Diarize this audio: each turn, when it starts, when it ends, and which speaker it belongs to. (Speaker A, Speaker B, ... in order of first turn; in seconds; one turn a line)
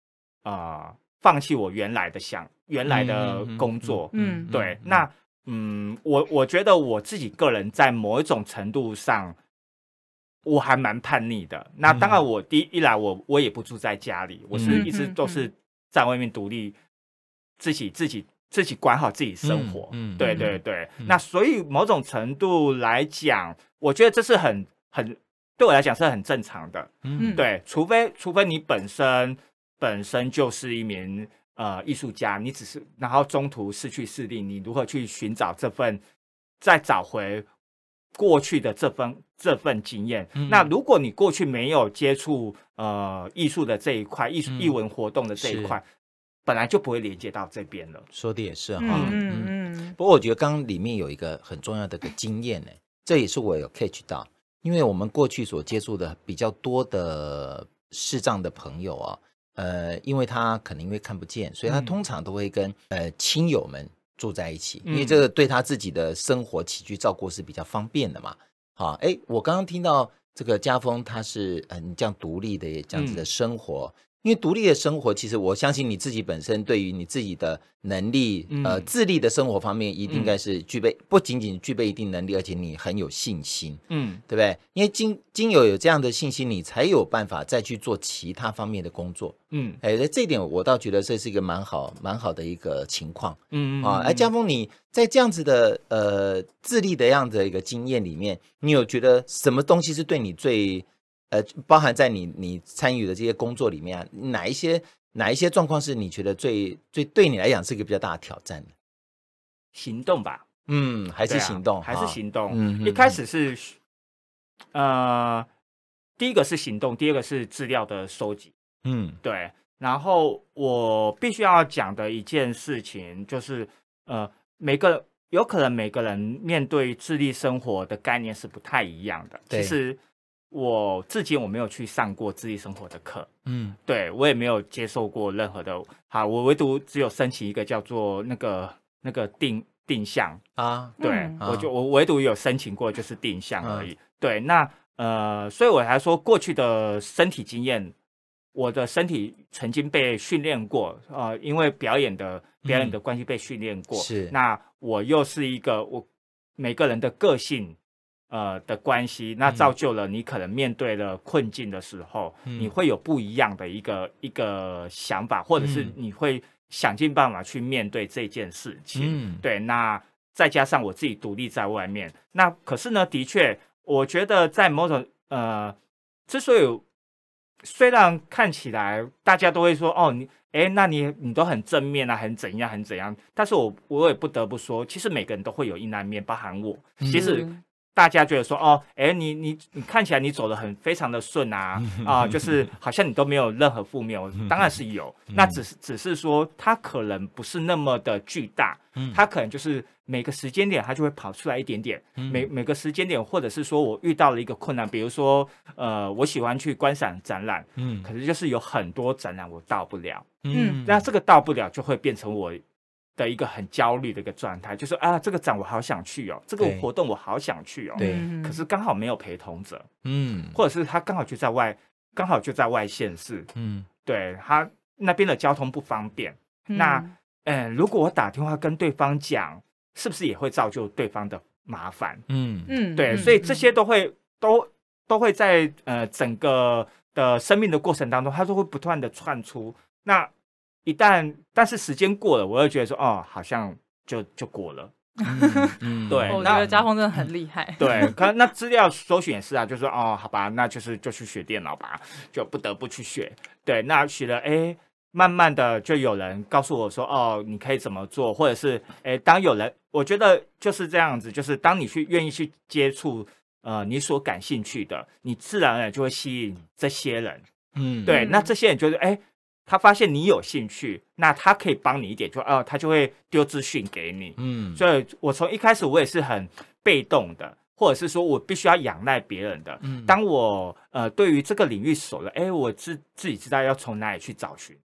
Speaker A: 0.4-9.3
Speaker B: 2.9-5.0
Speaker C: 4.1-4.5
Speaker A: 10.4-16.8
Speaker B: 11.9-12.2
Speaker B: 14.5-14.9
Speaker C: 14.6-15.5
Speaker A: 17.6-36.0
Speaker B: 19.4-21.2
Speaker B: 27.0-27.4
Speaker C: 27.2-27.4
Speaker A: 36.6-37.5
Speaker A: 38.2-45.8
Speaker B: 40.4-40.7
Speaker B: 44.5-44.8
Speaker B: 45.4-45.8
Speaker A: 46.5-48.1
Speaker B: 48.1-108.7
Speaker C: 48.8-50.0
Speaker A: 48.9-49.2
Speaker A: 61.7-61.9
Speaker A: 64.8-65.2
Speaker A: 72.9-73.2
Speaker A: 78.5-78.9
Speaker A: 80.1-80.3
Speaker A: 83.9-84.2
Speaker A: 89.5-89.8
Speaker A: 93.5-94.3
Speaker A: 109.7-110.5
Speaker B: 110.7-113.2
Speaker A: 111.3-113.8
Speaker A: 114.7-115.5
Speaker A: 116.2-118.5
Speaker B: 118.8-119.2
Speaker A: 119.2-130.0
Speaker B: 129.5-129.8
Speaker A: 130.5-133.3
Speaker B: 133.5-133.8
Speaker A: 133.9-140.4
Speaker B: 140.6-141.7
Speaker A: 141.0-147.9
Speaker C: 141.0-141.4
Speaker B: 143.6-143.9
Speaker A: 148.6-156.1
Speaker B: 152.7-153.0
Speaker B: 153.9-154.3
Speaker A: 156.6-157.8
Speaker A: 158.3-175.8
Speaker B: 159.5-159.7
Speaker B: 162.5-162.7
Speaker B: 165.6-165.9
Speaker B: 168.9-169.4
Speaker A: 176.3-176.8
Speaker A: 177.6-212.6
Speaker B: 187.0-187.4
Speaker C: 187.2-187.6
Speaker B: 191.8-192.6
Speaker B: 194.4-194.7
Speaker B: 195.3-195.6
Speaker B: 199.0-199.2
Speaker B: 202.2-202.5
Speaker B: 207.8-208.1
Speaker B: 210.4-211.1
Speaker C: 210.5-210.8
Speaker A: 213.2-219.9
Speaker B: 216.6-216.9
Speaker C: 218.0-218.6
Speaker B: 218.0-218.3
Speaker B: 220.0-220.6
Speaker A: 220.5-223.5
Speaker B: 223.6-223.9
Speaker A: 224.0-232.2
Speaker C: 226.7-227.1
Speaker B: 232.3-233.3
Speaker C: 232.7-233.6
Speaker A: 233.0-240.3
Speaker A: 240.8-244.9
Speaker B: 245.2-247.3
Speaker C: 245.2-248.1
Speaker A: 246.1-246.7
Speaker A: 247.8-267.4
Speaker B: 267.8-268.2
Speaker A: 268.0-284.8
Speaker C: 268.1-268.5
Speaker B: 274.4-274.8
Speaker B: 279.8-280.2